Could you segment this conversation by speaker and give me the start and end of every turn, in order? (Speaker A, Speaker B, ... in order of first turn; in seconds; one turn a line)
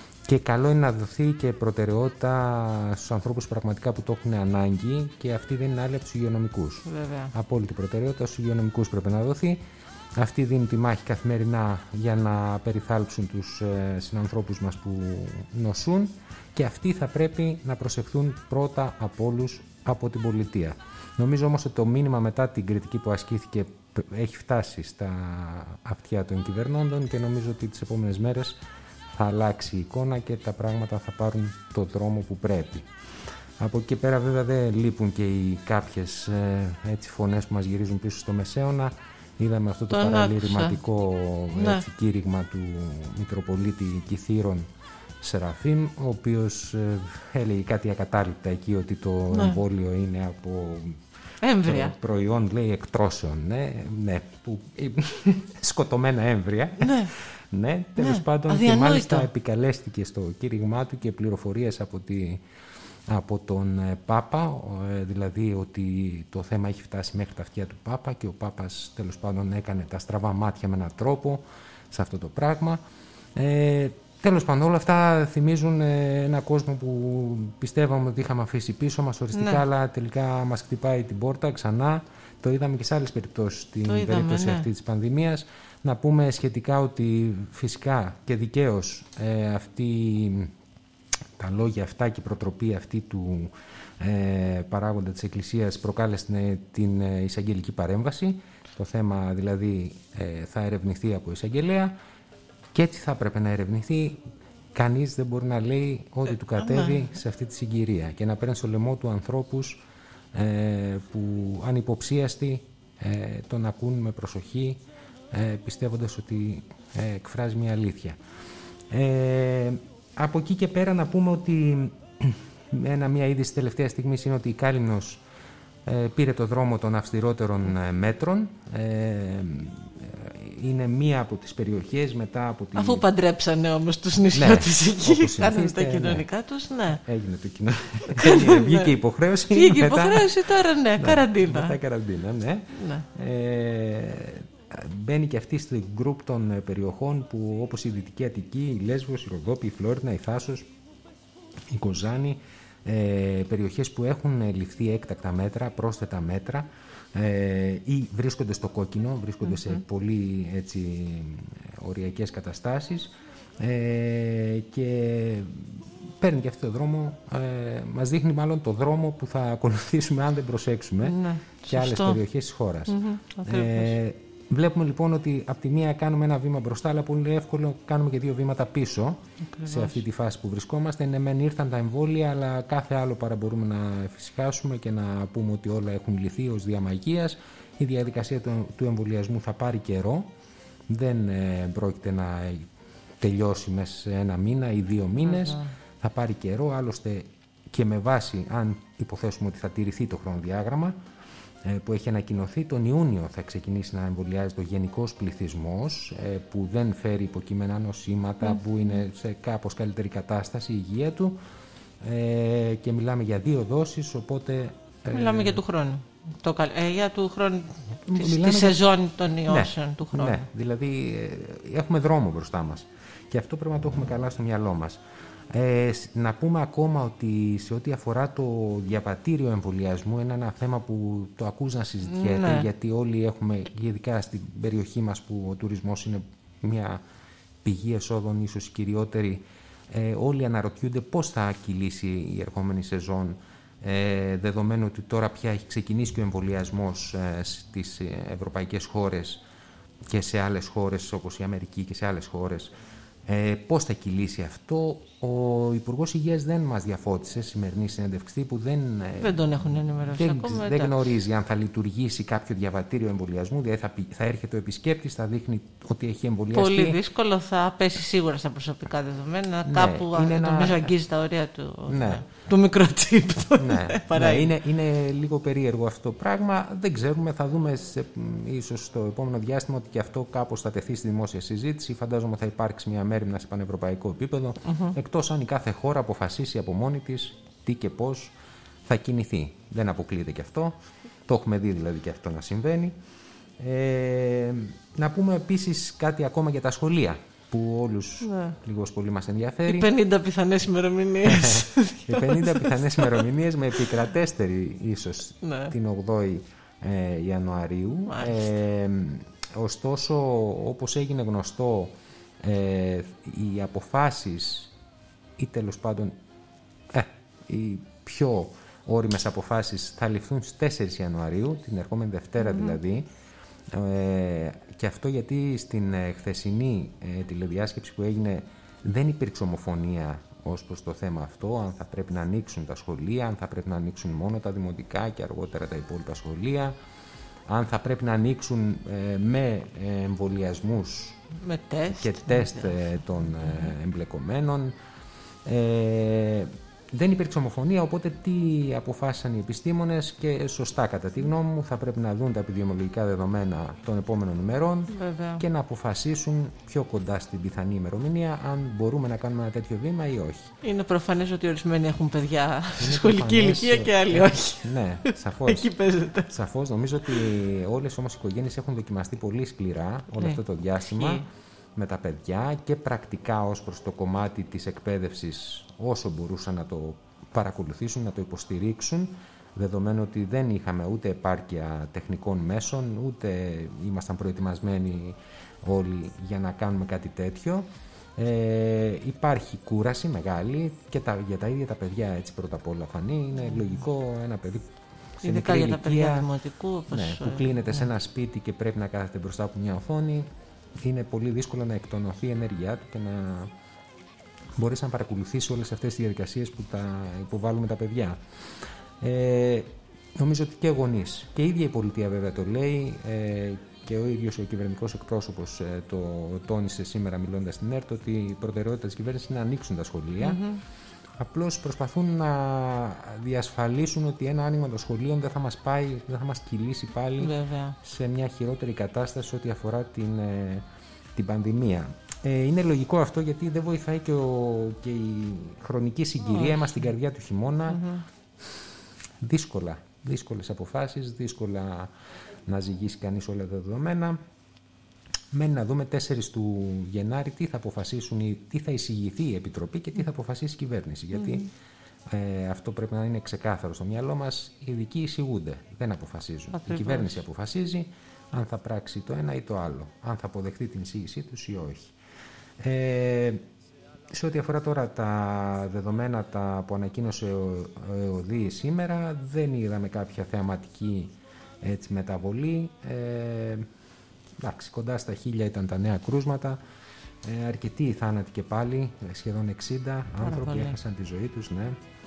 Speaker A: 0.2-9.7
Speaker B: 6.9-7.3
Speaker A: 10.2-28.6
Speaker A: 29.1-32.9
Speaker A: 33.6-44.7
Speaker B: 39.9-40.7
Speaker B: 41.6-41.8
Speaker A: 45.2-51.0
Speaker B: 49.3-49.6
Speaker B: 51.4-51.9
Speaker A: 51.6-62.4
Speaker B: 56.8-57.1
Speaker B: 58.0-59.3
Speaker A: 63.1-72.8
Speaker A: 73.3-90.5
Speaker B: 79.4-79.6
Speaker B: 83.9-84.7
Speaker A: 91.4-102.0
Speaker A: 102.7-109.8
Speaker B: 106.6-106.9
Speaker A: 110.3-118.2
Speaker A: 118.9-125.2
Speaker A: 125.8-133.1
Speaker B: 132.8-137.0
Speaker A: 134.3-136.3
Speaker A: 136.9-140.3
Speaker B: 138.2-138.9
Speaker B: 139.5-141.8
Speaker A: 141.0-150.7
Speaker B: 142.8-143.1
Speaker A: 151.7-190.3
Speaker B: 171.0-172.2
Speaker B: 172.9-173.9
Speaker B: 179.5-179.9
Speaker A: 190.9-192.7
Speaker A: 193.2-201.0
Speaker B: 195.2-195.7
Speaker A: 201.6-211.4
Speaker A: 212.0-215.6
Speaker B: 215.1-220.4
Speaker A: 218.1-218.8
Speaker A: 219.5-237.0
Speaker B: 232.1-232.7
Speaker A: 237.6-249.4
Speaker A: 250.1-252.8
Speaker A: 253.3-259.4
Speaker B: 259.2-260.9
Speaker A: 260.1-267.0
Speaker B: 266.5-274.5
Speaker A: 269.6-270.9
Speaker A: 271.9-272.2
Speaker A: 273.6-288.3
Speaker B: 284.7-284.9
Speaker A: 288.9-293.0
Speaker A: 293.6-299.9
Speaker B: 298.2-298.5
Speaker B: 299.7-303.0
Speaker A: 301.2-314.7
Speaker B: 305.4-305.7
Speaker A: 315.4-316.2
Speaker A: 316.9-323.1
Speaker B: 322.5-322.8
Speaker A: 323.7-336.8
Speaker A: 337.5-341.2
Speaker B: 341.4-342.8
Speaker A: 342.0-344.8
Speaker A: 345.4-360.5
Speaker B: 354.9-355.4
Speaker B: 360.6-364.7
Speaker A: 362.8-365.7
Speaker B: 365.5-366.3
Speaker A: 366.3-396.3
Speaker B: 371.0-371.2
Speaker B: 395.2-397.9
Speaker A: 396.9-403.5
Speaker A: 404.6-420.4
Speaker B: 420.2-420.6
Speaker A: 421.2-437.8
Speaker B: 427.2-427.8
Speaker B: 436.3-436.7
Speaker B: 437.7-438.0
Speaker A: 439.2-441.9
Speaker A: 442.5-444.2
Speaker A: 445.3-451.5
Speaker B: 451.2-451.4
Speaker A: 452.1-461.9
Speaker B: 456.6-457.1
Speaker A: 462.6-463.5
Speaker A: 464.1-473.7
Speaker A: 474.4-476.6
Speaker A: 477.2-481.8
Speaker B: 480.2-480.7